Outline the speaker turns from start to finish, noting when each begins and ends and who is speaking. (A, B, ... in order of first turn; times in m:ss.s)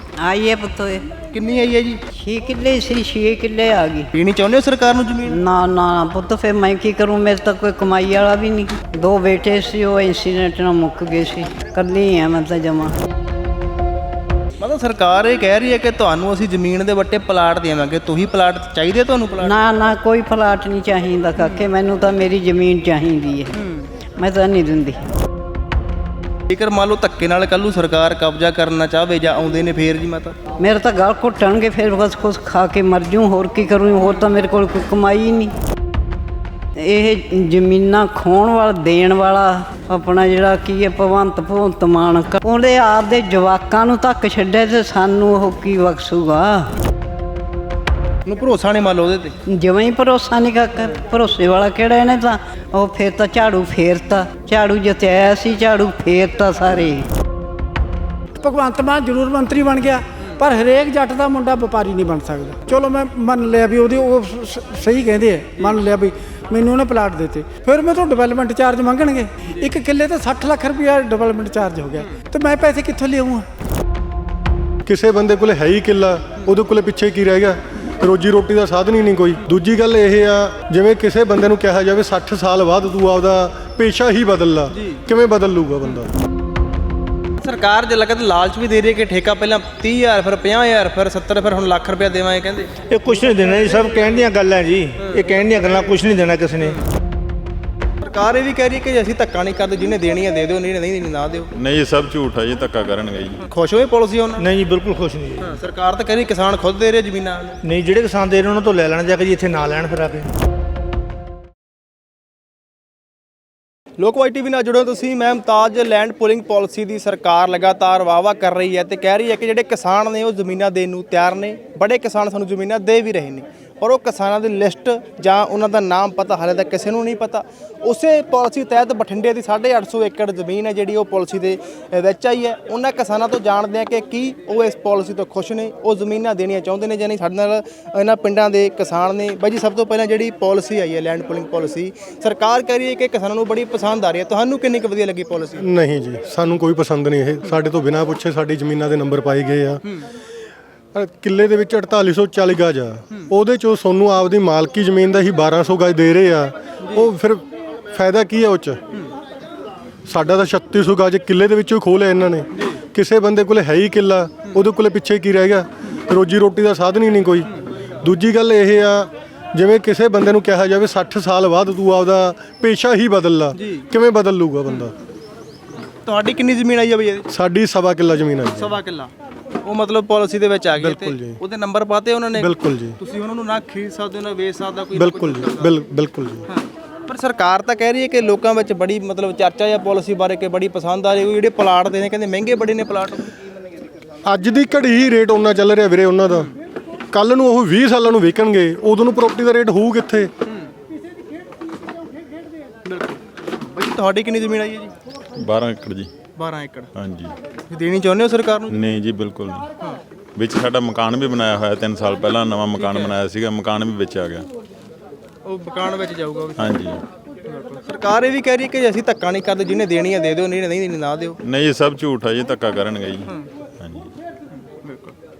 0:00.2-0:01.1 A
0:01.3-0:02.0 B
0:02.1-0:04.1 A
0:04.1-0:05.4 B
0:05.3-0:13.0 A
0:14.6-0:19.6 B
0:19.4-0:23.5 A
0:21.4-0:21.7 B
0:24.2-0:25.1 A
0:26.5-0:30.3 B
0:30.6-0:35.5 A
0:34.0-0:34.2 B
0:36.8-0:46.7 A
0:48.2-0:49.3 B
0:49.5-0:57.1 A
0:50.8-0:51.0 B
0:58.4-1:13.4 C
1:05.6-1:05.8 B
1:14.8-1:26.1 D
1:24.7-1:25.0 B
1:27.4-1:32.7 B
1:32.9-1:36.8 E
1:33.3-1:34.0 B
1:38.0-1:41.5 B
1:41.5-1:43.4 F
1:43.5-1:44.4 B
1:44.4-1:45.6 E
1:45.4-1:47.6 B
1:47.6-1:50.3 E
1:54.0-2:25.6 B
2:25.6-2:29.8 D
2:30.9-2:38.8 D
2:36.8-2:37.1 B
2:40.1-2:47.5 D
2:42.5-2:42.8 B
2:48.0-2:54.9 D
2:53.5-2:53.9 B
2:56.0-2:57.3 B
2:57.3-2:58.8 D
2:58.5-2:59.1 B
2:59.6-3:05.7 B
3:00.8-3:01.4 D
3:02.4-3:03.0 D
3:04.9-3:06.4 D
3:06.5-3:13.3 B
3:14.2-3:16.5 D
3:17.1-3:20.3 D
3:22.8-3:24.9 B
3:25.4-3:26.1 F
3:26.4-3:26.9 B
3:26.9-3:27.3 F
3:27.7-3:28.7 B
3:28.7-3:29.7 F
3:30.4-3:34.5 F
3:32.7-3:33.1 B
3:35.4-3:36.6 B
3:36.6-3:37.0 F
3:37.5-3:41.4 B
3:41.4-3:44.1 F
3:44.6-3:45.1 B